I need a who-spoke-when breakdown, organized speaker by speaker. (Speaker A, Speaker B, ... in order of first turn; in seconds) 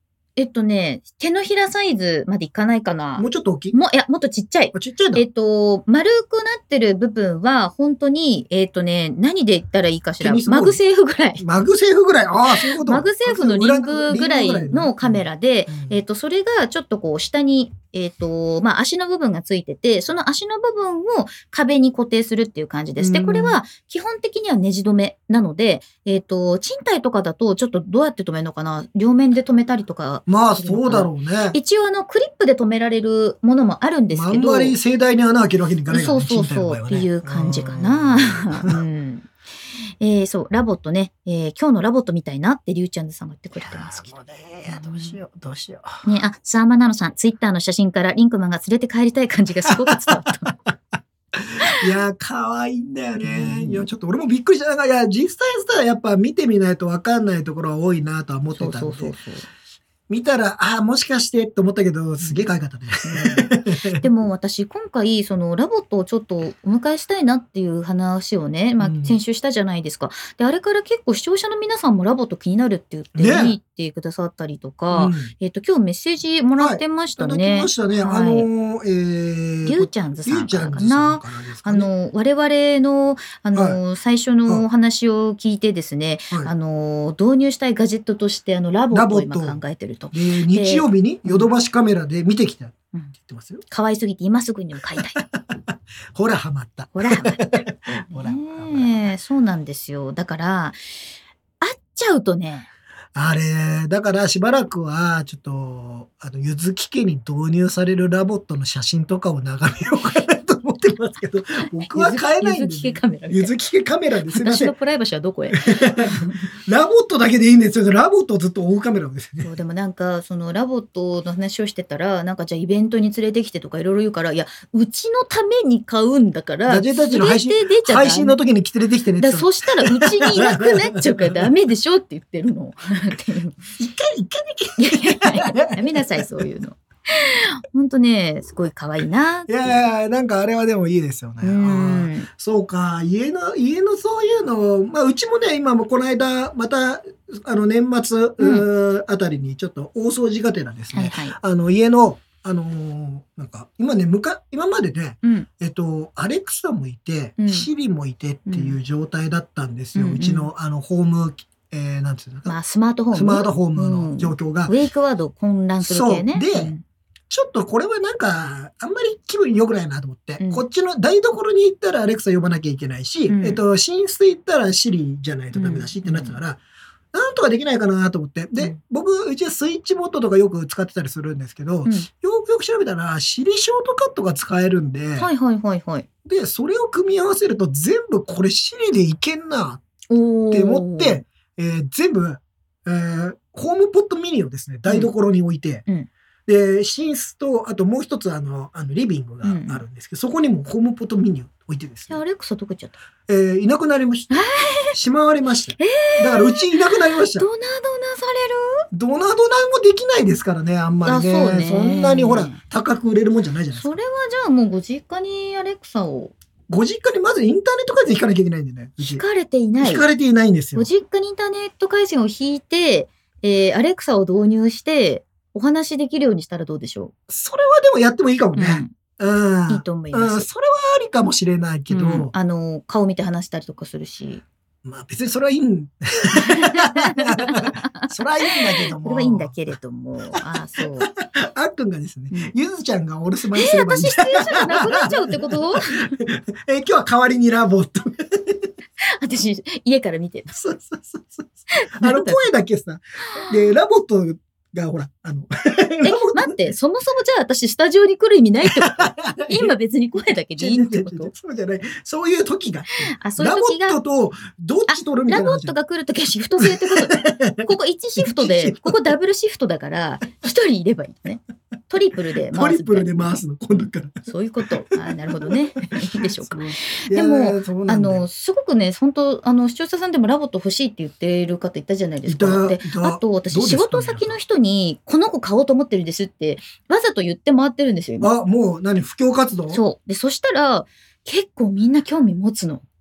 Speaker A: 0.4-11.4, 12.6-34.8, 35.9-39.3, 40.0-44.1, 44.7-45.2, 46.0-50.5, 53.2-53.9, 58.5-59.5, 62.2-62.5, 63.0-78.5, 79.6-91.5, 93.7-95.2, 96.9-100.8, 101.6-102.7, 111.8-113.5, 114.3-116.5, 119.4-128.4, 129.2-133.6, 134.8-139.8, 141.4-142.3, 148.4-148.7, 150.9-151.4, 157.4-157.7, 158.5-158.8, 159.9-160.5, 162.4-166.8, 173.3-173.6, 175.5-176.4, 185.2-186.1, 190.1-191.2, 194.8-195.1, 199.4-199.8, 202.1-203.0, 204.3-205.0, 205.8-208.8, 211.0-212.6, 213.7-216.3, 219.0-220.1, 220.7-227.1, 228.6-228.9, 229.7-230.5, 231.9-234.4, 236.4-241.1, 243.5-246.1, 249.0-250.6, 251.7-252.4, 253.3-253.7, 256.0-261.3, 263.2-264.0, 264.9-273.4, 274.2-288.3, 289.7-292.8
Speaker B: 3.2-3.8, 4.7-5.2, 10.2-10.8, 11.4-16.0, 23.0-23.6, 30.3-31.6, 34.1-38.8, 43.6-46.0, 49.7-50.7, 51.3-59.1, 60.1-64.0, 68.8-69.2, 73.2-73.6, 74.9-75.3, 76.6-81.9, 88.9-89.6, 90.1-93.6, 95.2-99.0, 103.1-114.7, 115.5-119.5, 126.7-131.5, 133.8-136.4, 139.5-162.5, 163.1-164.7, 165.8-166.7, 167.3-176.6, 177.1-185.3, 186.2-189.8, 190.5-195.8, 196.5-202.2, 203.3-207.5, 208.9-213.9, 216.7-219.2, 219.8-220.9, 227.3-232.3, 234.8-239.5, 241.0-248.7, 250.5-256.6, 258.6-259.7, 260.6-265.7, 266.6-269.1, 272.5-274.2, 275.3-275.6, 276.1-278.2, 282.2-284.4, 288.2-289.8